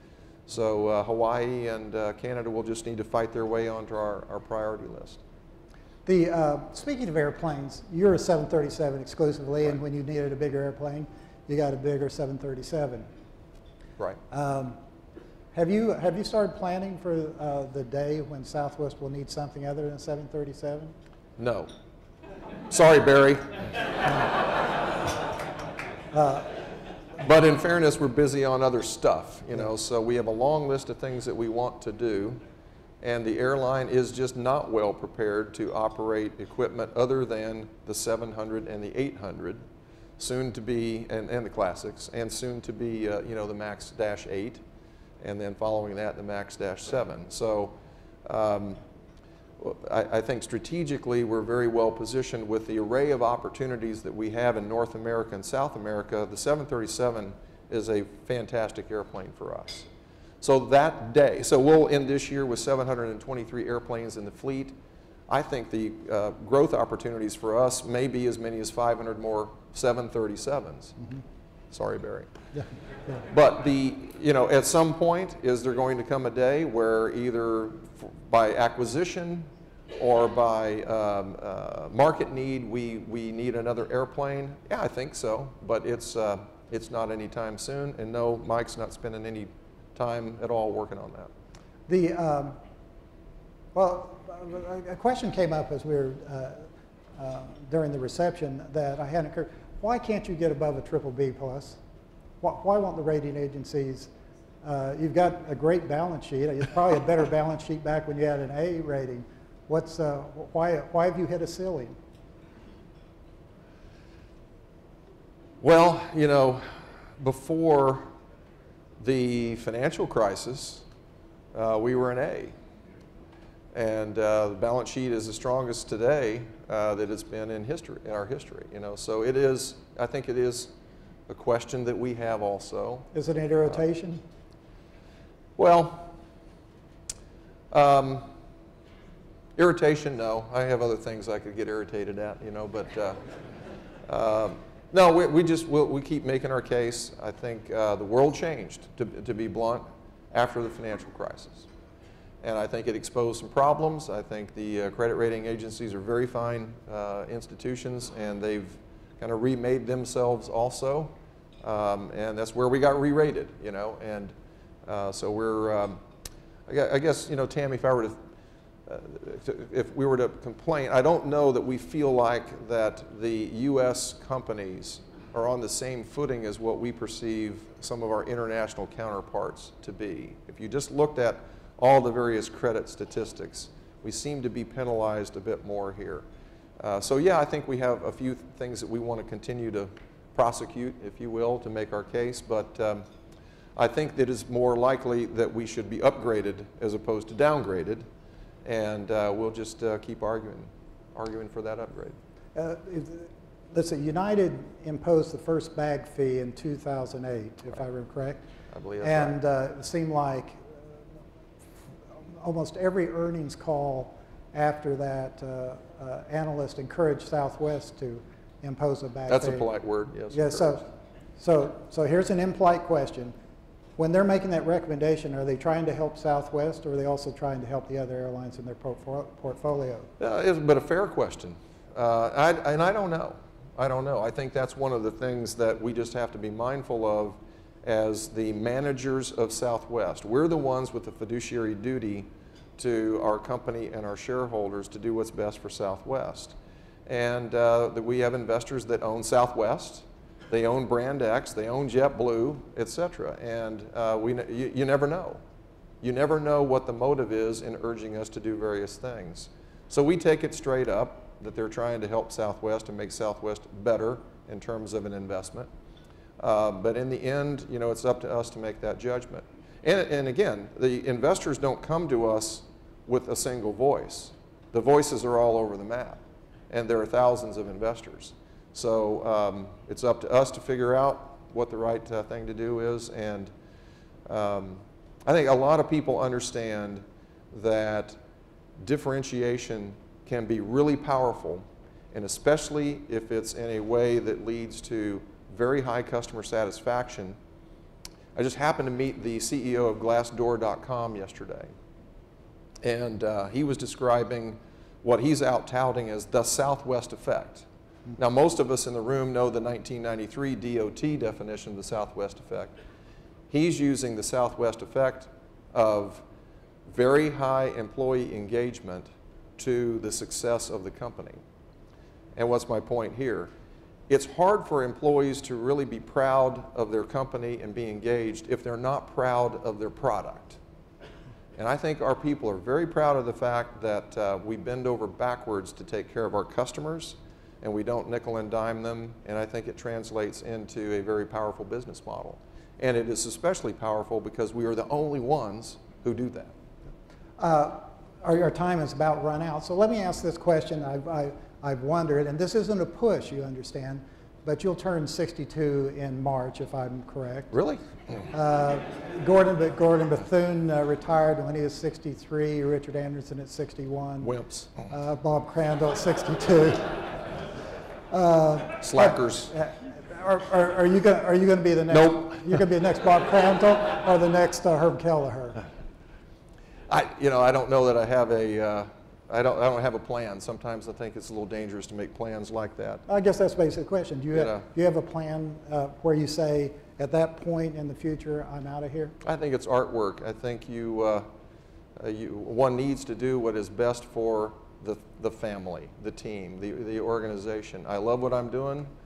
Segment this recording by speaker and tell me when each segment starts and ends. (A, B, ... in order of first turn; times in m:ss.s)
0:00.5-0:05.2 A
0:06.0-0:13.0 B
0:14.3-0:14.8 B
0:15.5-0:20.9 B
0:21.4-0:21.7 A
0:22.7-0:23.6 A
0:26.1-0:26.4 B
0:27.2-0:32.4 A
0:33.0-0:39.6 A
0:40.2-0:44.6 A
0:45.2-0:48.8 A
0:49.6-0:59.9 A
1:00.4-1:04.8 A
1:05.3-1:11.0 A
1:11.7-1:12.3 A
1:13.2-1:31.3 A
1:31.9-1:32.6 B
1:33.7-1:41.8 B
1:42.4-1:44.1 B
1:44.6-1:51.9 B
1:55.6-1:56.6 A
1:57.2-1:58.0 A
1:59.0-2:00.8 A
2:01.5-2:02.5 A
2:03.7-2:10.7 A
2:11.3-2:13.1 A
2:13.1-2:14.2 B
2:15.6-2:16.1 A
2:17.7-2:18.3 A
2:19.6-2:23.2 A
2:24.0-2:31.7 A
2:32.4-2:46.0 A
2:46.7-2:48.2 A
2:48.8-3:06.2 A
3:06.8-3:13.0 A
3:13.8-3:18.0 A
3:18.6-3:22.2 A
3:22.5-3:28.4 B
3:28.7-3:29.4 A
3:29.0-3:30.8 B
3:32.4-3:39.7 B
3:39.3-3:40.8 A
3:40.3-3:40.8 B
3:41.4-3:43.3 B
3:44.0-3:50.1 B
3:50.2-4:15.4 A
4:16.0-4:25.7 A
4:26.4-4:43.5 A
4:44.3-4:48.2 A
4:48.8-4:57.4 A
4:58.3-5:01.7 A
5:02.8-5:12.7 A
5:13.5-5:16.2 A
5:16.8-5:21.4 A
5:22.3-5:23.5 A
5:24.1-5:30.6 A
5:31.6-5:46.5 A
5:47.4-5:57.5 B
5:57.5-5:57.8 A
5:58.3-6:04.3 B
6:04.2-6:04.8 A
6:04.9-6:07.2 B
6:08.1-6:15.6 B
6:08.8-6:09.5 A
6:11.9-6:12.4 A
6:16.9-6:23.0 A
6:23.1-6:29.1 B
6:24.3-6:24.6 A
6:29.2-6:31.3 A
6:32.0-6:38.9 A